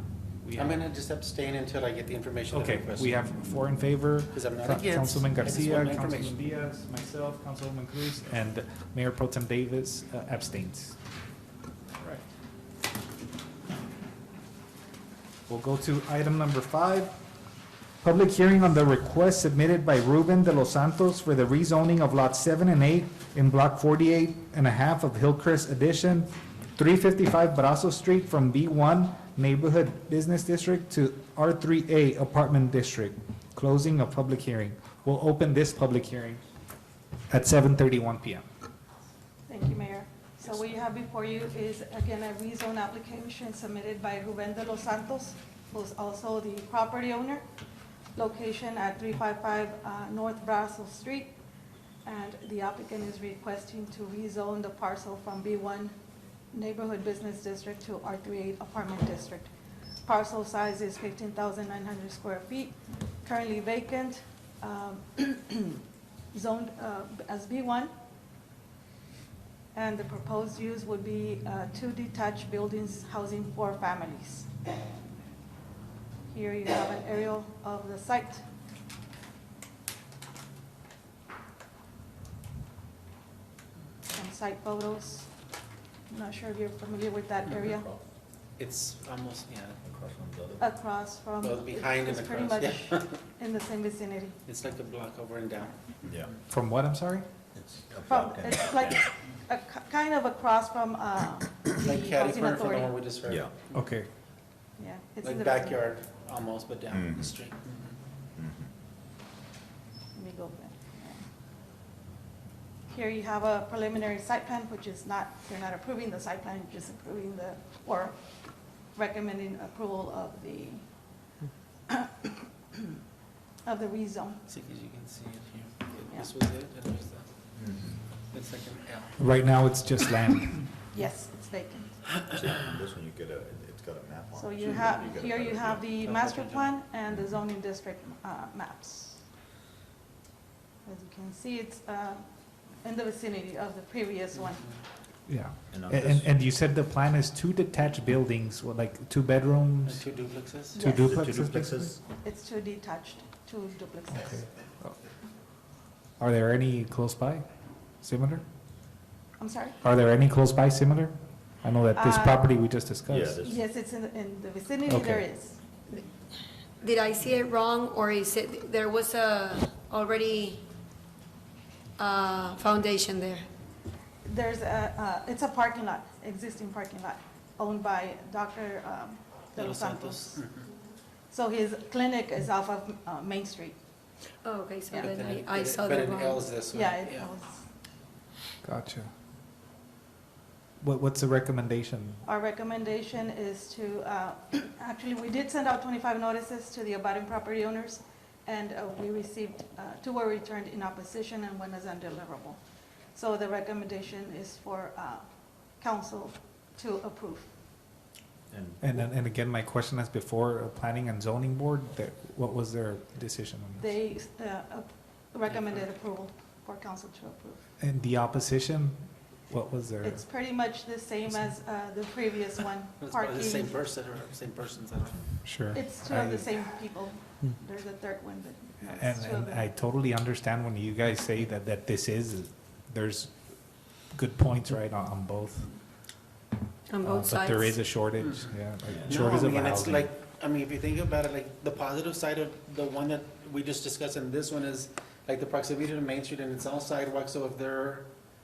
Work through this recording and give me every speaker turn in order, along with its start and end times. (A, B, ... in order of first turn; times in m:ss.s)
0:00.4-0:00.8 A
0:00.6-0:03.2 B
0:02.5-0:11.0 A
0:04.3-0:06.4 B
0:15.5-0:17.1 A
0:18.0-0:36.4 A
0:37.3-0:38.4 A
0:39.5-0:47.4 C
0:48.2-0:51.4 C
0:52.0-0:55.9 C
0:56.5-0:59.5 C
1:00.1-1:05.8 C
1:06.3-1:07.9 C
1:09.7-1:14.5 C
1:16.3-1:18.5 C
1:24.1-1:25.3 C
1:26.1-1:27.9 C
1:27.6-1:28.0 D
1:28.6-1:29.8 B
1:29.8-1:30.6 D
1:30.6-1:34.4 C
1:31.4-1:33.2 B
1:34.5-1:36.4 B
1:36.0-1:36.3 D
1:36.5-1:37.3 A
1:37.5-1:39.1 D
1:38.1-1:43.0 C
1:41.8-1:43.8 B
1:43.3-1:43.6 D
1:43.7-1:44.1 A
1:44.8-1:45.8 C
1:45.2-1:48.0 B
1:46.9-1:47.3 D
1:48.4-1:48.7 D
1:50.2-1:51.2 C
1:52.9-1:58.2 C
1:59.0-2:00.9 C
2:01.9-2:02.9 C
2:03.6-2:04.4 C
2:04.5-2:07.3 B
2:07.6-2:08.0 D
2:08.3-2:09.3 B
2:09.2-2:10.7 A
2:10.9-2:12.0 C
2:12.3-2:15.9 D
2:14.3-2:19.2 C
2:14.6-2:15.0 B
2:16.0-2:16.8 B
2:20.8-2:22.3 C
2:22.8-2:24.7 C
2:25.3-2:30.0 A
2:25.7-2:26.3 D
2:29.8-2:30.8 B
2:30.8-2:31.1 C
2:30.8-2:32.0 A
2:31.0-2:32.0 D
2:32.2-2:34.5 C
2:36.2-2:37.4 A
2:38.0-2:38.4 A
2:39.4-2:39.8 C
2:39.8-2:43.4 A
2:41.9-2:42.5 C
2:43.1-2:43.6 D
2:43.4-2:45.6 C
2:44.9-2:45.3 A
2:46.8-2:50.6 E
2:52.0-2:53.4 E
2:54.2-3:00.4 C
2:59.5-3:00.7 B
3:01.3-3:03.8 C
3:04.4-3:06.5 E
3:05.0-3:07.3 B
3:06.7-3:07.6 C
3:08.6-3:09.1 A
3:10.8-3:12.2 A
3:12.2-3:22.6 C
3:23.1-3:25.3 C
3:25.8-3:27.5 C
3:28.5-3:29.0 D
3:28.8-3:33.8 A
3:33.8-3:37.6 C
3:35.5-3:35.8 B
3:37.8-3:39.0 A
3:39.5-3:40.2 A
3:40.0-3:43.8 C
3:43.0-3:45.4 B
3:45.4-3:46.4 A
3:45.7-3:49.7 C
3:48.9-3:55.7 A
3:56.9-3:57.8 E
3:57.0-4:00.1 A
3:58.2-4:08.1 B
3:58.9-3:59.3 D